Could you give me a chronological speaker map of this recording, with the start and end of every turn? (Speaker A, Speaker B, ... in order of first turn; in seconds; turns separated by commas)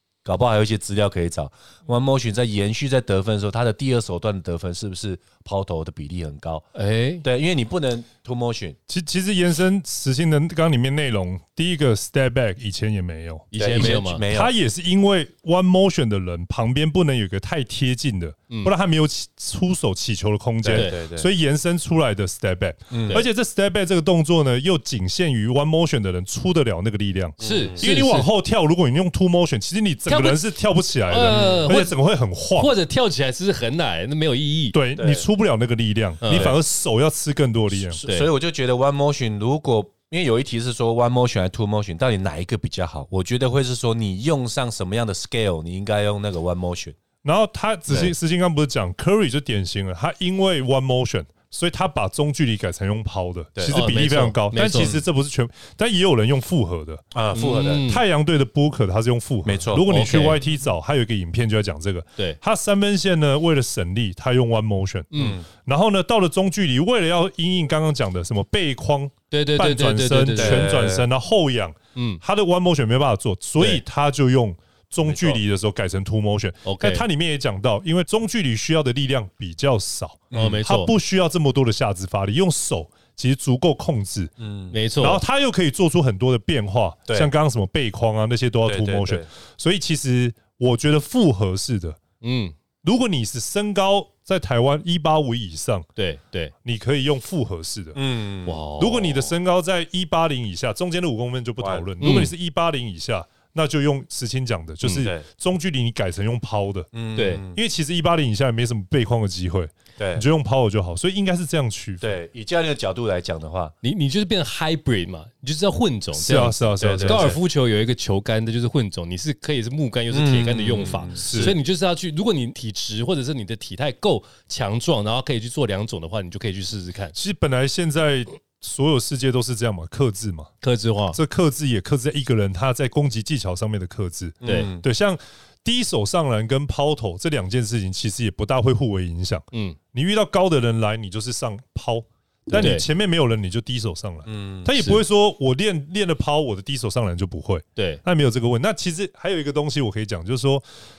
Speaker A: 0.2-6.7, Speaker B: 6.8-7.3, Speaker A: 7.2-8.8, Speaker C: 8.9-32.7, Speaker B: 13.5-14.2, Speaker A: 13.5-14.5, Speaker A: 20.6-21.3, Speaker A: 22.9-23.2, Speaker A: 27.4-27.8, Speaker B: 27.4-28.3, Speaker B: 30.1-30.4, Speaker B: 31.1-32.0, Speaker A: 31.3-31.9, Speaker B: 32.6-34.8, Speaker C: 34.7-38.0, Speaker A: 35.0-35.3, Speaker B: 36.2-36.5, Speaker A: 36.3-36.6, Speaker A: 37.7-47.0, Speaker B: 38.0-38.3, Speaker C: 47.2-57.0, Speaker A: 47.9-48.1, Speaker A: 53.5-53.9, Speaker B: 53.7-55.0, Speaker A: 54.7-55.1, Speaker A: 57.1-57.9, Speaker B: 57.3-58.0, Speaker C: 57.9-84.3, Speaker A: 59.4-60.3, Speaker B: 59.9-60.4, Speaker B: 65.1-65.4, Speaker A: 65.2-65.5, Speaker B: 69.3-71.0, Speaker A: 70.3-71.1, Speaker B: 72.0-72.2, Speaker A: 75.0-75.4, Speaker B: 76.7-77.0, Speaker A: 80.3-80.6, Speaker B: 80.3-80.9, Speaker A: 84.4-84.8, Speaker B: 84.7-85.2, Speaker C: 85.0-92.0, Speaker A: 87.1-87.3, Speaker A: 88.7-89.3, Speaker B: 92.2-92.5, Speaker C: 92.8-95.9, Speaker B: 96.0-96.5, Speaker C: 96.6-98.0, Speaker A: 98.0-98.6, Speaker B: 98.5-99.3, Speaker C: 98.8-106.9, Speaker A: 101.6-101.9, Speaker B: 102.0-102.3, Speaker B: 104.8-105.1, Speaker A: 105.0-105.2, Speaker A: 106.9-107.6, Speaker B: 107.2-107.4, Speaker C: 107.5-112.2, Speaker A: 110.0-110.3, Speaker A: 112.0-113.8, Speaker B: 113.8-127.2, Speaker C: 116.1-117.4, Speaker A: 116.8-117.4, Speaker A: 120.1-121.6, Speaker C: 121.2-121.6, Speaker C: 127.2-130.5, Speaker B: 130.6-131.2, Speaker C: 131.1-150.6, Speaker A: 134.4-134.9, Speaker B: 134.4-134.7, Speaker B: 139.5-139.8, Speaker B: 142.5-142.9, Speaker A: 144.2-144.8, Speaker B: 147.8-148.0